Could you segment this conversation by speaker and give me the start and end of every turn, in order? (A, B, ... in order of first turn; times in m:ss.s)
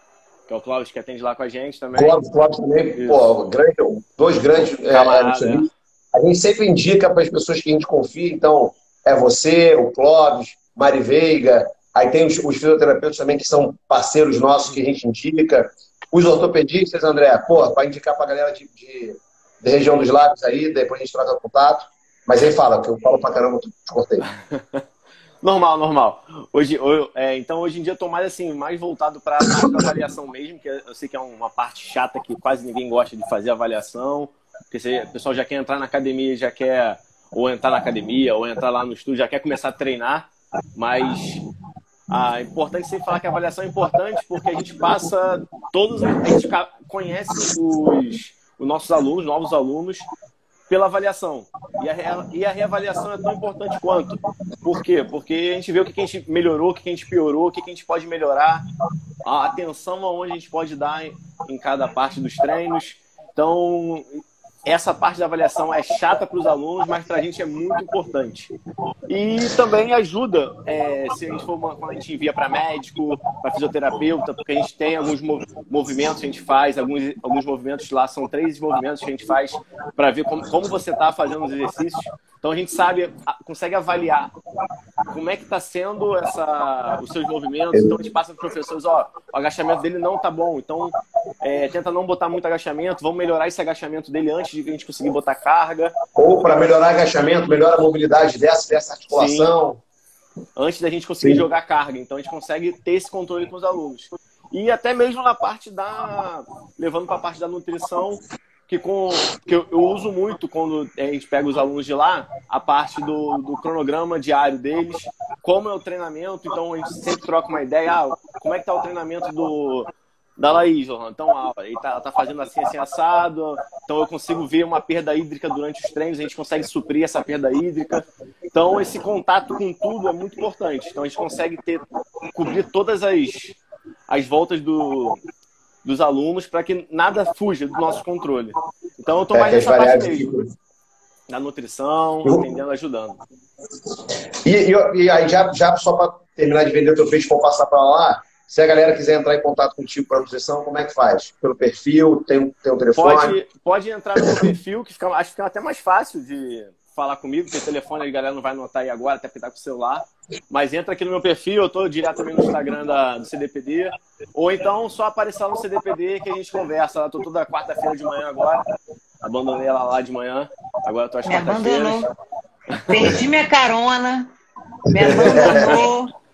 0:00.5-0:02.2 A
0:01.9-0:24.3 B
0:03.0-0:03.4 A
0:04.9-0:05.7 A
0:25.4-0:41.4 A
0:42.1-0:50.1 A
0:50.7-0:58.6 A
0:59.2-1:08.5 A
1:09.1-1:24.3 A
1:25.1-1:36.0 A
1:27.7-1:28.0 B
1:36.2-1:39.8 B
1:39.1-1:39.5 A
1:40.6-2:15.2 A
1:41.2-1:41.5 B
2:15.8-2:20.3 A
2:19.3-2:20.5 B
2:21.3-2:23.2 A
2:24.4-2:33.4 B
2:33.0-2:48.6 A
2:49.2-2:52.0 A
2:51.3-2:52.1 C
2:52.8-2:53.1 A
2:52.9-2:54.3 C
2:54.9-2:55.8 B
2:54.9-2:56.1 C